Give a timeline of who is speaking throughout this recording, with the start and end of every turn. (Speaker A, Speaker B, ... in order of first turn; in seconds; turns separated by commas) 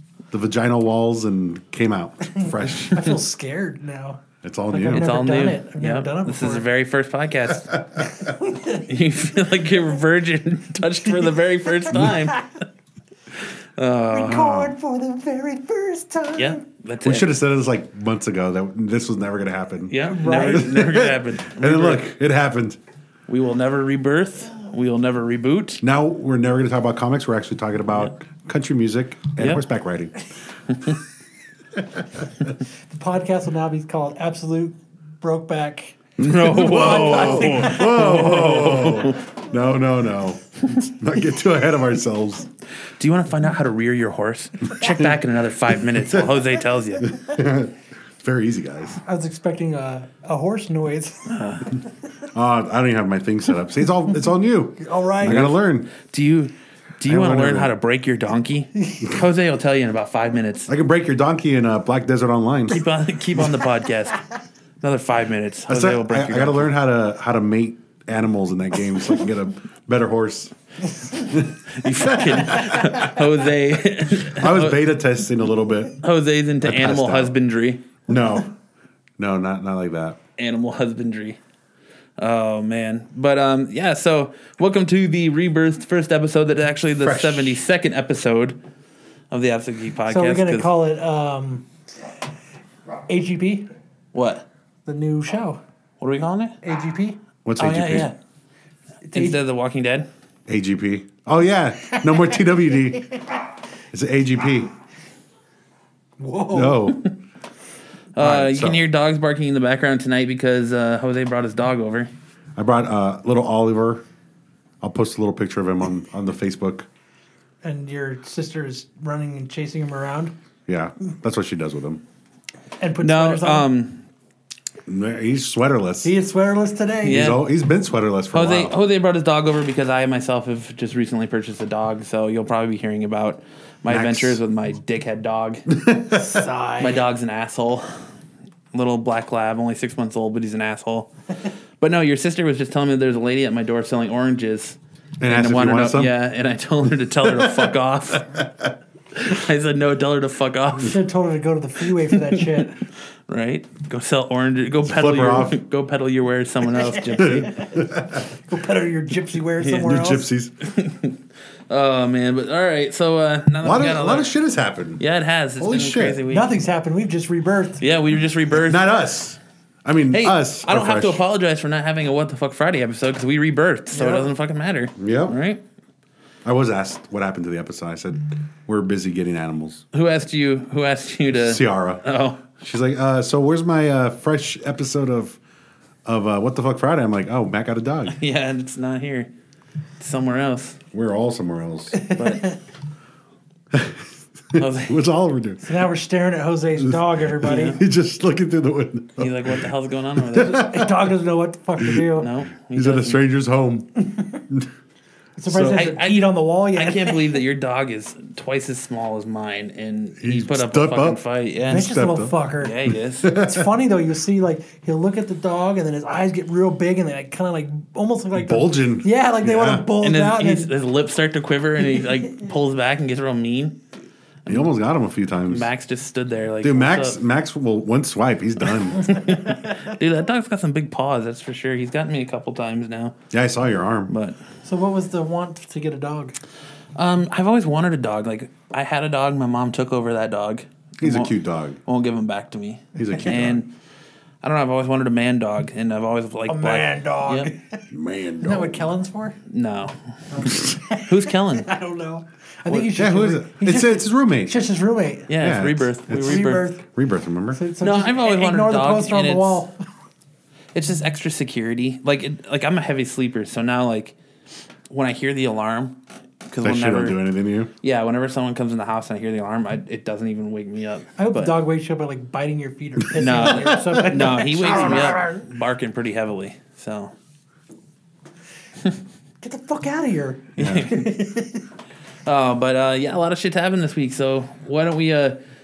Speaker A: 0.3-3.0, Speaker B: 2.4-4.2, Speaker A: 4.4-5.0, Speaker B: 4.7-6.7, Speaker C: 4.8-8.1, Speaker B: 8.3-8.8, Speaker C: 8.7-12.5, Speaker C: 13.8-14.7, Speaker B: 14.1-16.6, Speaker C: 16.4-17.3, Speaker A: 17.0-22.8, Speaker C: 19.9-22.1, Speaker B: 20.0-20.8, Speaker C: 23.3-25.8, Speaker A: 25.8-30.2, Speaker C: 29.4-29.6, Speaker A: 31.8-32.0, Speaker B: 32.9-36.0, Speaker A: 36.2-42.5, Speaker C: 36.2-39.2, Speaker B: 36.5-38.9, Speaker C: 43.0-47.1, Speaker A: 47.0-49.0, Speaker B: 49.0-51.4, Speaker C: 51.3-51.7, Speaker A: 52.3-55.9, Speaker B: 54.8-55.5, Speaker C: 55.2-60.7, Speaker A: 57.0-57.7, Speaker A: 60.7-62.8, Speaker C: 62.7-64.2, Speaker C: 64.8-66.7, Speaker A: 65.7-70.5, Speaker A: 71.2-72.9, Speaker C: 71.7-74.8, Speaker A: 74.2-76.0, Speaker C: 76.0-77.8, Speaker A: 76.6-77.4, Speaker A: 78.0-78.5, Speaker A: 79.2-80.2, Speaker C: 80.4-81.4, Speaker C: 82.2-88.6, Speaker A: 87.0-87.6, Speaker C: 89.3-90.7, Speaker B: 90.1-91.7, Speaker B: 93.1-93.7, Speaker C: 94.1-94.4, Speaker B: 94.8-95.6, Speaker C: 96.0-96.6, Speaker B: 96.6-97.2, Speaker A: 97.4-98.1, Speaker C: 97.6-98.1, Speaker B: 99.0-99.4, Speaker C: 99.1-100.1, Speaker A: 100.5-103.1, Speaker A: 103.9-104.7, Speaker B: 106.2-106.9, Speaker A: 106.5-107.0, Speaker C: 108.1-112.1, Speaker A: 108.2-108.8, Speaker A: 112.5-114.0, Speaker A: 114.8-116.9, Speaker B: 117.6-120.3, Speaker A: 120.7-122.0, Speaker B: 122.8-123.7, Speaker C: 123.0-124.0, Speaker A: 124.9-126.1, Speaker B: 126.0-127.3, Speaker C: 127.0-127.4, Speaker A: 127.0-128.7, Speaker C: 128.3-135.7, Speaker A: 133.9-134.4, Speaker A: 135.7-136.3, Speaker B: 136.1-137.0, Speaker C: 136.8-137.9, Speaker C: 138.7-148.4, Speaker A: 145.2-146.1, Speaker A: 147.2-147.7, Speaker C: 149.2-151.0, Speaker B: 150.8-152.8, Speaker C: 152.3-152.6, Speaker C: 153.3-157.7, Speaker A: 154.8-155.6, Speaker B: 156.9-157.8, Speaker A: 157.2-158.2, Speaker B: 158.3-160.2, Speaker C: 159.6-159.9, Speaker A: 159.8-160.5, Speaker C: 160.6-164.3, Speaker A: 163.6-165.0, Speaker C: 165.0-166.5, Speaker A: 165.6-166.2, Speaker B: 166.3-167.8, Speaker C: 167.8-168.8, Speaker A: 168.6-171.2, Speaker C: 170.1-175.6, Speaker B: 173.9-174.3, Speaker A: 175.0-175.3, Speaker A: 176.4-179.8, Speaker C: 179.9-182.4, Speaker A: 181.3-182.0, Speaker A: 182.6-185.4, Speaker A: 186.1-188.2, Speaker C: 188.1-189.3, Speaker C: 190.0-190.8, Speaker A: 190.9-192.0, Speaker B: 192.0-192.5, Speaker C: 192.1-192.5, Speaker A: 193.7-195.6, Speaker C: 194.6-195.0, Speaker B: 195.6-197.8, Speaker A: 196.8-199.6, Speaker C: 197.4-197.8, Speaker C: 199.2-200.8, Speaker A: 200.3-200.9, Speaker B: 200.4-202.3, Speaker A: 201.8-202.0, Speaker C: 202.2-203.2, Speaker A: 202.7-203.9, Speaker B: 204.0-204.4, Speaker B: 205.4-207.4, Speaker C: 205.5-211.9, Speaker A: 210.2-211.2, Speaker B: 211.7-212.8, Speaker A: 211.7-213.7, Speaker C: 212.6-213.3, Speaker B: 213.3-220.7, Speaker A: 218.3-219.9, Speaker C: 220.0-223.8, Speaker A: 224.5-225.7, Speaker C: 225.5-227.2, Speaker A: 226.6-229.1, Speaker C: 229.0-233.2, Speaker A: 233.3-234.1, Speaker C: 234.1-234.4, Speaker B: 234.6-236.3, Speaker C: 236.9-241.3, Speaker A: 241.0-241.8, Speaker C: 241.8-243.7, Speaker A: 242.9-243.6, Speaker C: 244.4-247.5, Speaker B: 246.5-247.8, Speaker A: 247.9-248.9, Speaker B: 248.4-249.4, Speaker C: 249.5-251.7, Speaker B: 250.3-255.3, Speaker A: 252.7-254.6, Speaker C: 255.3-256.7, Speaker A: 255.4-257.6, Speaker B: 256.2-256.8, Speaker B: 257.5-259.8, Speaker C: 257.8-259.6, Speaker C: 260.7-264.1, Speaker C: 264.9-267.2, Speaker A: 266.6-267.7, Speaker C: 267.8-271.5, Speaker B: 271.2-275.5, Speaker C: 273.1-277.1, Speaker A: 273.4-273.9, Speaker B: 279.4-281.6, Speaker C: 280.6-281.1, Speaker A: 280.6-280.9, Speaker C: 282.2-285.4